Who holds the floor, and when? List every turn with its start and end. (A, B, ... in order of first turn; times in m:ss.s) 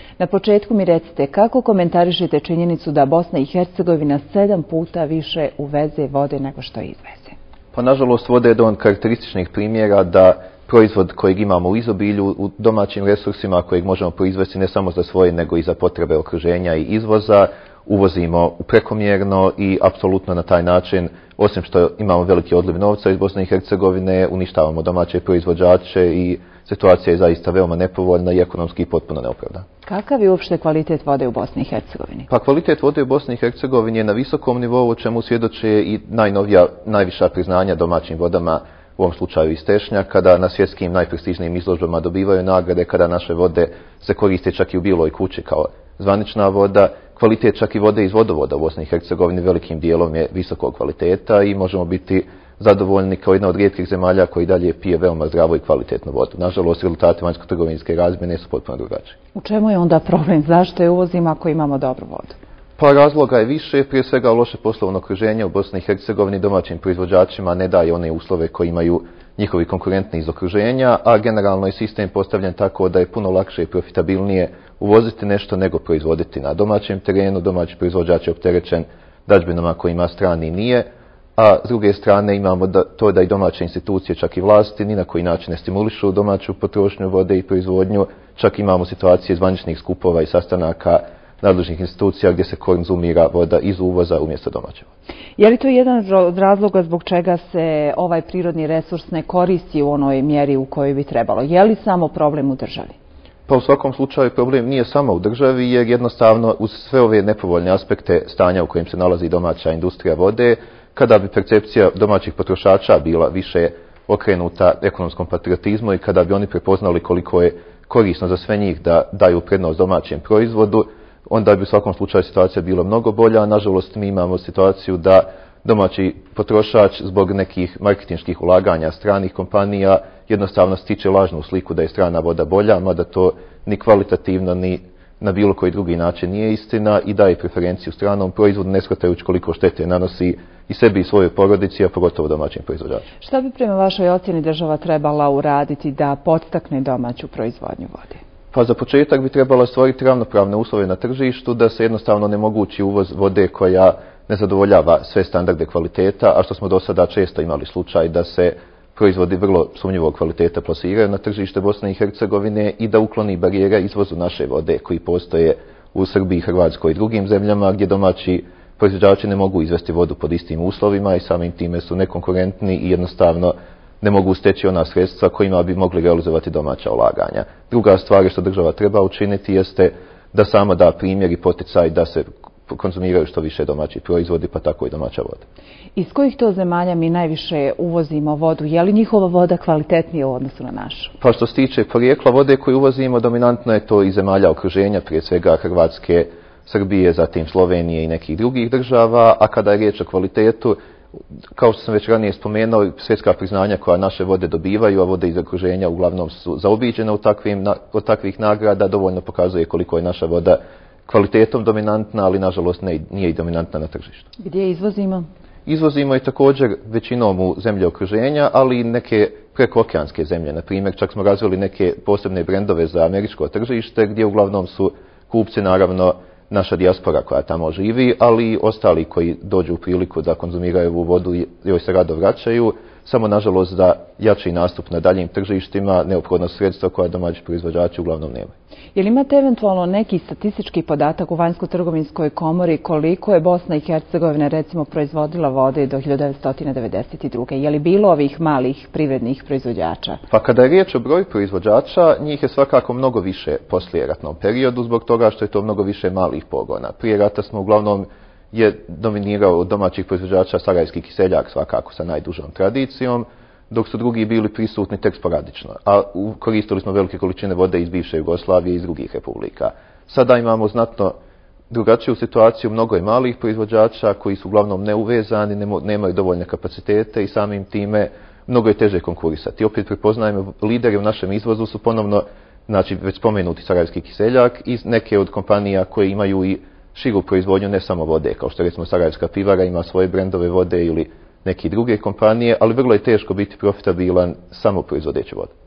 0:00.2-0:07.4 A
0:07.7-0:29.6 B
0:29.8-0:32.3 A
0:32.3-0:59.2 B
0:59.4-1:02.4 A
1:02.8-1:34.9 B
1:35.4-1:42.9 A
1:43.5-2:23.1 B
2:23.2-2:28.2 A
2:28.5-3:05.5 B
3:06.0-3:11.1 A
3:11.2-3:20.8 B
3:21.5-3:34.2 B
3:34.4-3:35.3 A
3:35.7-3:58.5 B
3:59.0-4:10.2 A
4:10.3-4:31.2 B
4:31.7-4:55.5 B